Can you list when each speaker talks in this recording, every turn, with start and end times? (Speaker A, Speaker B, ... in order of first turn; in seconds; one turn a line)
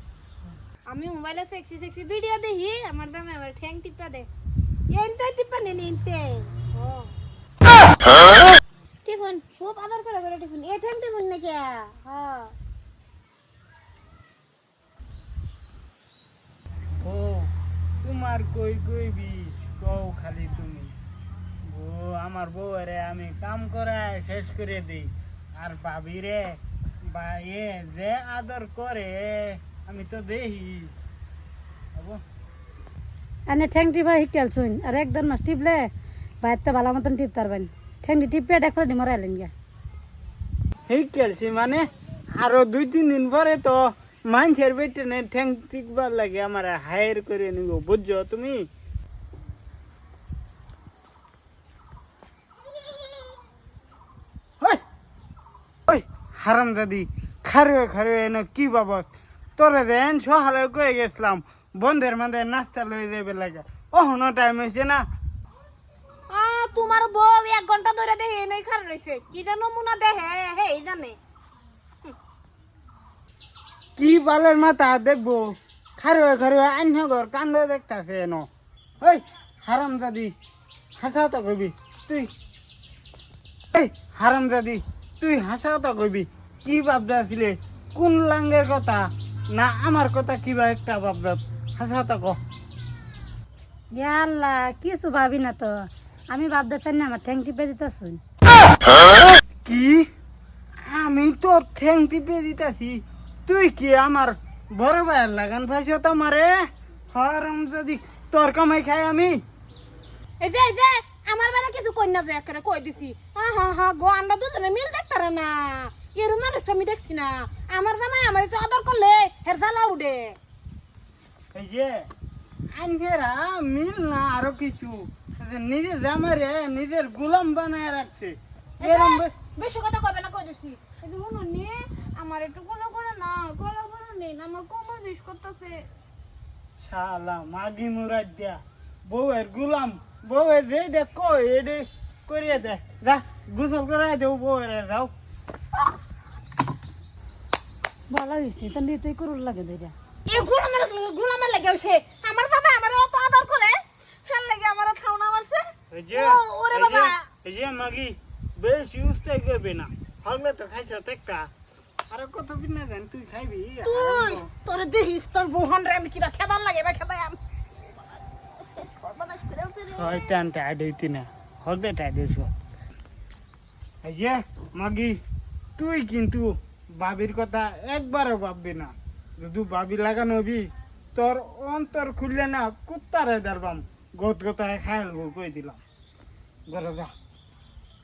Speaker A: 0.9-4.3
Speaker A: 4.9-7.1
Speaker A: 9.1-12.5
Speaker B: 17.0-17.5
Speaker B: 18.0-20.9
Speaker B: 21.7-30.9
Speaker B: 31.9-32.2
Speaker C: 33.5-35.9
Speaker C: 36.4-39.5
Speaker B: 40.9-41.9
Speaker B: 42.4-48.7
Speaker B: 55.9-65.0
Speaker A: 66.3-71.2
Speaker B: 74.0-78.5
Speaker B: 79.0-80.3
Speaker B: 81.0-82.3
Speaker B: 83.7-92.4
Speaker C: 94.0-98.2
Speaker B: 99.7-100.1
Speaker B: 100.8-109.4
Speaker A: 110.4-120.4
Speaker B: 121.5-122.1
Speaker B: 122.8-129.3
Speaker A: 128.8-135.9
Speaker B: 136.8-145.1
Speaker C: 148.1-149.9
Speaker A: 150.3-157.2
Speaker B: 155.9-161.5
Speaker B: 162.1-164.5
Speaker A: 163.8-167.4
Speaker A: 168.6-170.3
Speaker B: 169.9-172.6
Speaker B: 174.0-175.2
Speaker B: 175.8-185.8
Speaker B: 186.7-187.1